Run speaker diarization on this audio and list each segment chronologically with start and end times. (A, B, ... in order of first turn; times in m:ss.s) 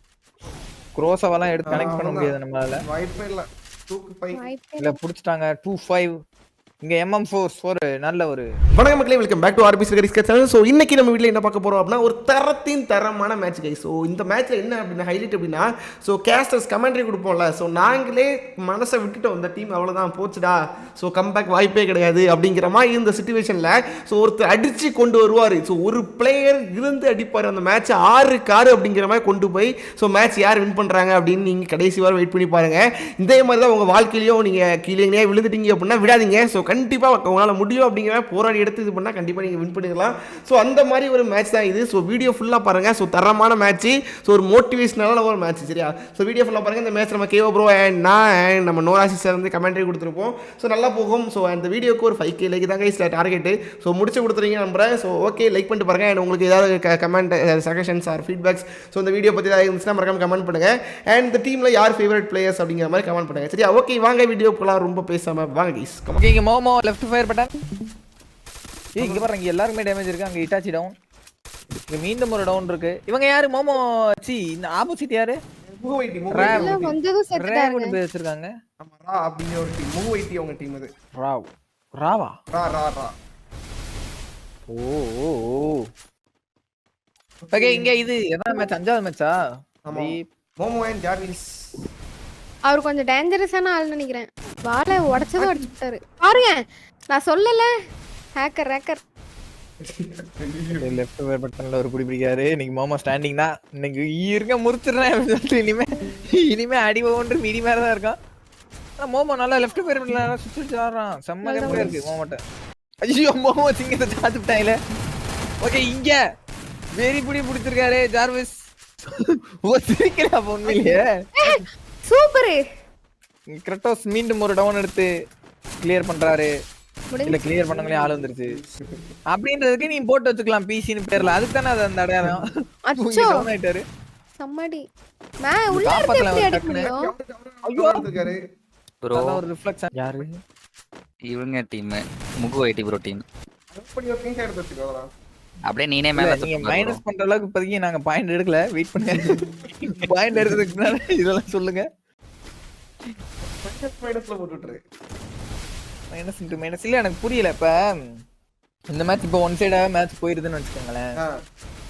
0:01.0-0:02.8 A
0:01.7-0:04.4 B
0:04.3-0:05.0 C
0:04.8-0:06.1 A
0:06.8-0:08.5 A
0:08.8-1:06.2 B
1:06.2-1:07.5 A
1:09.0-1:09.3 B
1:09.0-1:10.9 A
1:11.9-1:15.4 A
1:15.7-1:17.0 B
1:16.3-1:16.8 A
1:16.4-1:18.0 C
1:17.4-1:18.5 A
1:18.8-1:20.9 B
1:21.2-1:22.3 A
1:22.5-1:23.1 B
1:24.7-1:25.8 A
1:27.4-1:27.9 B
1:27.5-1:29.3 A
1:29.9-1:31.5 B
1:29.9-1:30.2 A
1:32.7-1:37.7 C
1:35.4-1:35.6 B
1:38.4-1:39.0 C
1:39.8-1:40.9 B
1:40.8-1:48.2 A
1:49.0-1:52.4 A
1:51.4-1:52.0 C
1:51.7-1:52.1 B
1:53.1-1:54.8 A
1:55.6-1:56.2 A
1:57.0-1:58.5 A
1:59.2-2:01.0 A
2:01.4-2:02.6 C
2:03.5-2:05.1 A
2:05.8-2:06.5 A
2:07.1-2:07.5 C
2:07.3-2:08.5 A
2:07.6-2:09.1 B
2:09.3-2:12.4 A
2:12.9-2:13.5 C
2:13.0-2:13.8 A
2:14.4-2:14.8 C
2:15.4-2:17.1 C
2:15.8-2:16.9 A
2:16.8-2:18.4 B
2:17.7-2:18.1 A
2:19.0-2:19.4 D
2:19.2-2:20.4 A
2:21.3-2:23.2 D
2:23.7-2:25.1 B
2:25.7-2:27.0 D
2:26.2-2:29.3 A
2:29.2-2:29.5 B
2:29.9-2:31.8 A
2:30.3-2:30.6 B
2:33.4-2:34.8 B
2:36.1-2:37.7 A
2:38.9-2:41.0 A